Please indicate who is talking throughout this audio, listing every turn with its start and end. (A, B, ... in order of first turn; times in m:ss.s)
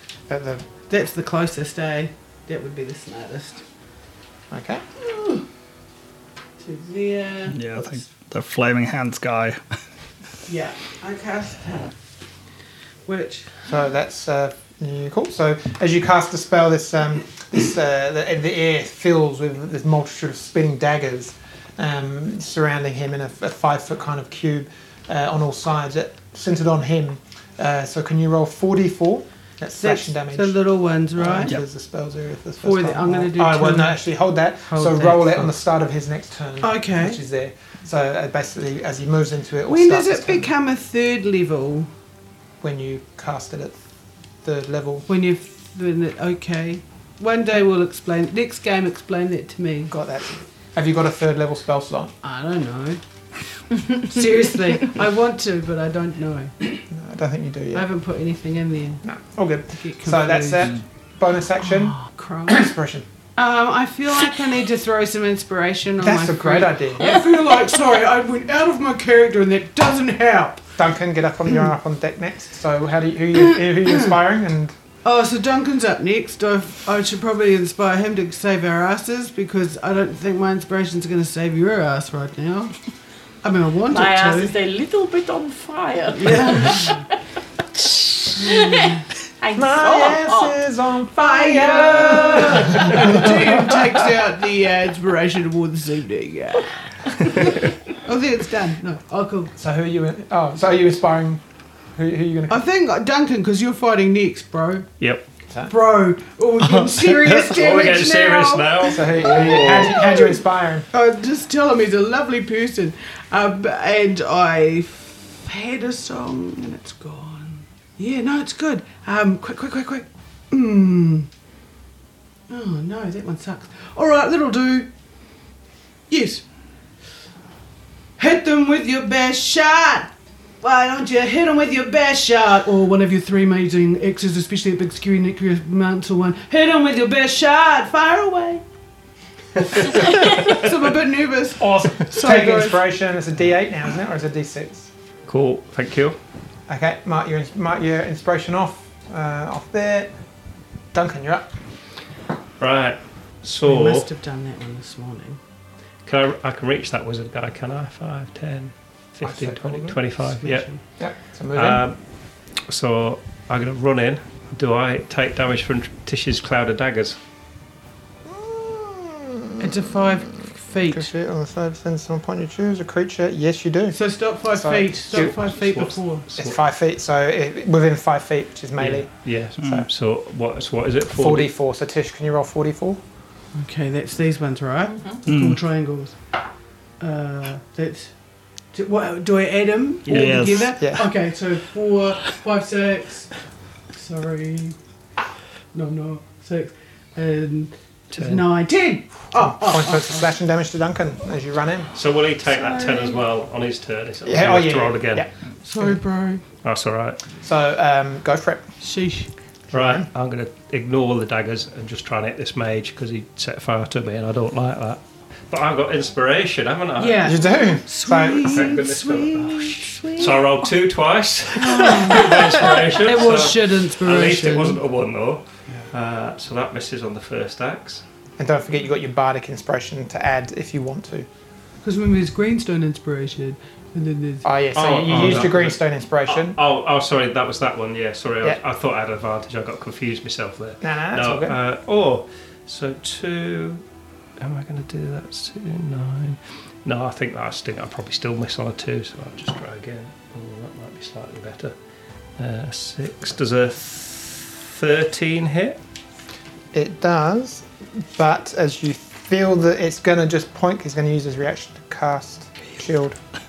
0:00.3-0:00.6 A
0:00.9-0:03.6 B
0:04.5-0:04.8 A
0:05.0-0:05.4 B
0:06.6-0:08.0 B
0:07.5-0:09.6 C
0:10.5-0:12.0 B
0:13.1-0:13.6 B
0:13.7-0:30.6 A
0:29.8-0:31.6 B
0:31.2-0:40.5 A
0:32.6-0:34.0 B
0:34.7-0:35.5 B
0:36.6-0:37.2 B
0:39.7-0:41.9 B
0:42.6-0:43.8 A
0:44.4-0:45.1 A
0:45.1-0:49.9 B
0:49.9-0:52.1 A
0:52.2-0:53.0 B
0:53.8-0:56.8 B
0:56.9-0:57.9 A
0:57.7-0:59.0 B
0:59.0-1:03.0 A
0:59.8-1:00.7 B
1:02.1-1:02.7 B
1:03.4-1:10.6 B
1:06.0-1:07.2 A
1:10.8-1:14.7 A
1:15.0-1:22.8 B
1:23.4-1:24.5 B
1:23.9-1:27.1 D
1:26.2-1:27.0 B
1:27.8-1:30.6 D
1:28.4-1:29.0 B
1:29.6-1:34.2 A
1:31.2-1:39.5 B
1:32.4-1:33.1 D
1:39.6-1:41.4 A
1:42.0-1:42.6 A
1:42.5-1:44.9 B
1:45.5-1:45.7 A
1:45.7-1:50.4 B
1:47.0-1:49.9 E
1:48.9-1:50.9 A
1:50.9-2:01.3 B
2:02.5-2:04.9 B
2:06.1-2:06.4 B
2:08.2-2:18.6 B
2:19.7-2:22.9 B
2:20.0-2:20.5 D
2:21.6-2:24.9 A
2:25.3-2:26.2 E
2:26.7-2:30.1 A
2:30.9-2:31.5 A
2:32.6-2:34.1 E
2:33.6-2:35.4 B
2:36.1-2:40.7 E
2:39.2-2:40.0 A
2:40.4-2:40.8 B
2:41.0-2:41.8 A
2:41.6-2:42.0 E
2:42.7-2:47.2 E
2:48.3-2:54.0 A
2:49.6-2:51.1 B
2:53.9-2:56.3 B
2:54.5-2:55.5 A
2:55.1-2:56.6 E
2:56.4-2:59.9 A
2:58.8-3:01.5 E
3:01.1-3:03.0 A
3:03.5-3:06.2 B
3:05.3-3:05.6 C
3:07.0-3:08.1 B
3:08.7-3:13.3 B
3:10.1-3:10.5 E
3:10.1-3:10.8 C
3:10.7-3:11.1 A
3:13.9-3:14.8 B
3:15.7-3:20.3 B
3:18.1-3:18.5 E
3:19.3-3:21.9 A
3:22.0-3:25.3 E
3:22.5-3:23.2 B
3:24.3-3:26.0 A
3:25.6-3:26.4 B
3:26.6-3:27.2 E
3:27.4-3:28.6 A
3:28.8-3:29.3 B
3:29.7-3:30.1 A
3:29.7-3:37.4 E
3:37.0-3:40.6 B
3:37.2-3:38.7 A
3:38.4-3:48.0 E
3:41.5-3:44.8 B
3:48.4-3:51.3 A
3:51.8-3:54.4 B
3:54.4-3:56.6 A
3:54.8-4:03.8 E
4:00.8-4:01.6 A
4:04.4-4:11.7 E
4:12.4-4:15.8 E
4:16.7-4:23.2 A